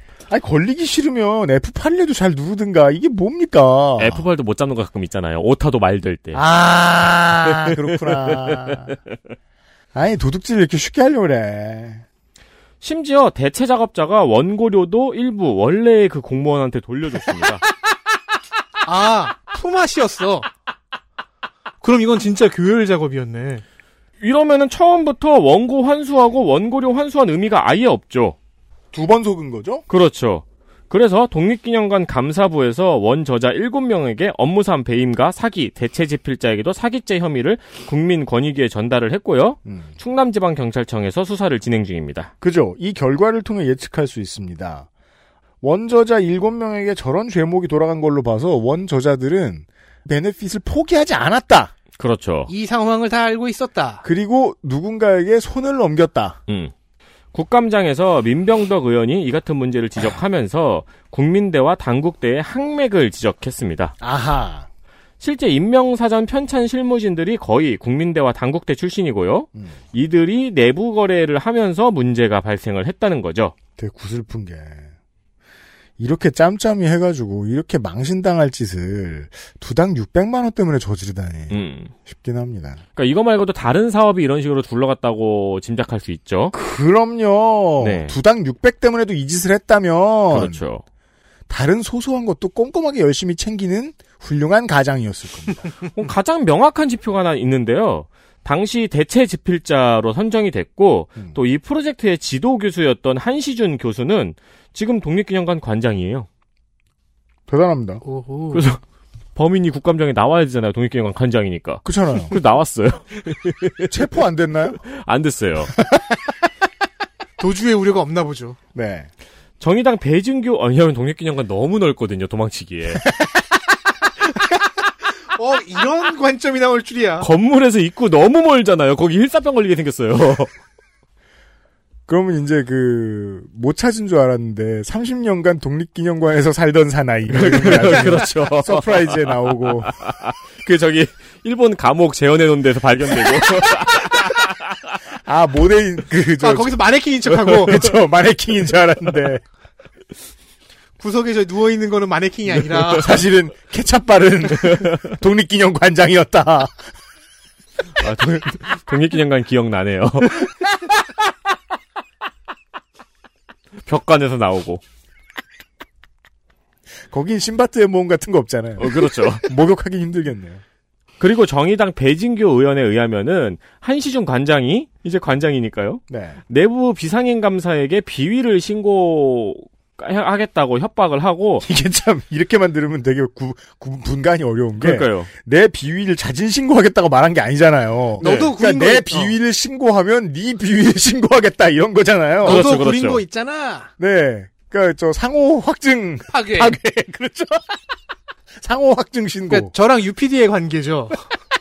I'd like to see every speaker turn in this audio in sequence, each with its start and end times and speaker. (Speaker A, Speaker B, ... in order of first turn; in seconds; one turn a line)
Speaker A: 0.3-4.2
Speaker B: 4.0-6.4
Speaker A: 6.3-8.9
Speaker B: 7.5-8.8
Speaker A: 9.9-12.0
Speaker B: 12.8-17.6
Speaker C: 18.8-20.5
Speaker C: 21.8-23.6
Speaker B: 24.2-28.4
Speaker A: 28.9-29.8
Speaker B: 29.9-42.3
Speaker A: 39.6-39.9
Speaker A: 42.4-44.9
Speaker A: 45.6-51.7
Speaker B: 52.0-52.5
Speaker C: 52.5-54.0
Speaker A: 54.0-56.4
Speaker B: 57.3-64.0
Speaker A: 64.0-64.7
Speaker B: 65.2-73.5
Speaker A: 73.8-74.9
Speaker A: 76.0-82.8
Speaker B: 81.5-81.9
Speaker B: 83.0-86.5
Speaker A: 86.5-90.6
Speaker B: 87.8-88.1
Speaker B: 90.3-90.8
Speaker A: 91.5-95.7
Speaker B: 95.9-106.3
Speaker A: 107.5-108.0
Speaker C: 108.0-108.6
Speaker B: 108.5-108.8
Speaker B: 109.4-113.9
Speaker A: 111.8-112.3
Speaker A: 113.8-114.8
Speaker B: 114.9-115.7
Speaker A: 115.8-116.2
Speaker C: 117.4-118.6
Speaker A: 118.8-119.1
Speaker B: 119.6-123.0
Speaker C: 125.3-127.3
Speaker B: 127.2-130.5
Speaker A: 132.1-140.0
Speaker B: 137.3-144.6
Speaker A: 145.2-146.8
Speaker C: 146.4-147.8
Speaker A: 147.5-149.4
Speaker C: 151.0-153.1
Speaker A: 153.0-156.8
Speaker B: 154.6-155.0
Speaker B: 158.0-160.5
Speaker B: 163.9-164.8
Speaker A: 167.1-170.6
Speaker B: 168.8-169.4
Speaker B: 171.2-181.6
Speaker A: 176.1-176.4
Speaker A: 181.6-192.7
Speaker B: 184.8-185.3
Speaker B: 188.2-188.5
Speaker C: 188.2-189.3
Speaker C: 192.4-193.9
Speaker B: 192.4-193.2
Speaker A: 194.0-197.8
Speaker C: 196.3-196.8
Speaker A: 198.6-199.7
Speaker C: 199.5-201.2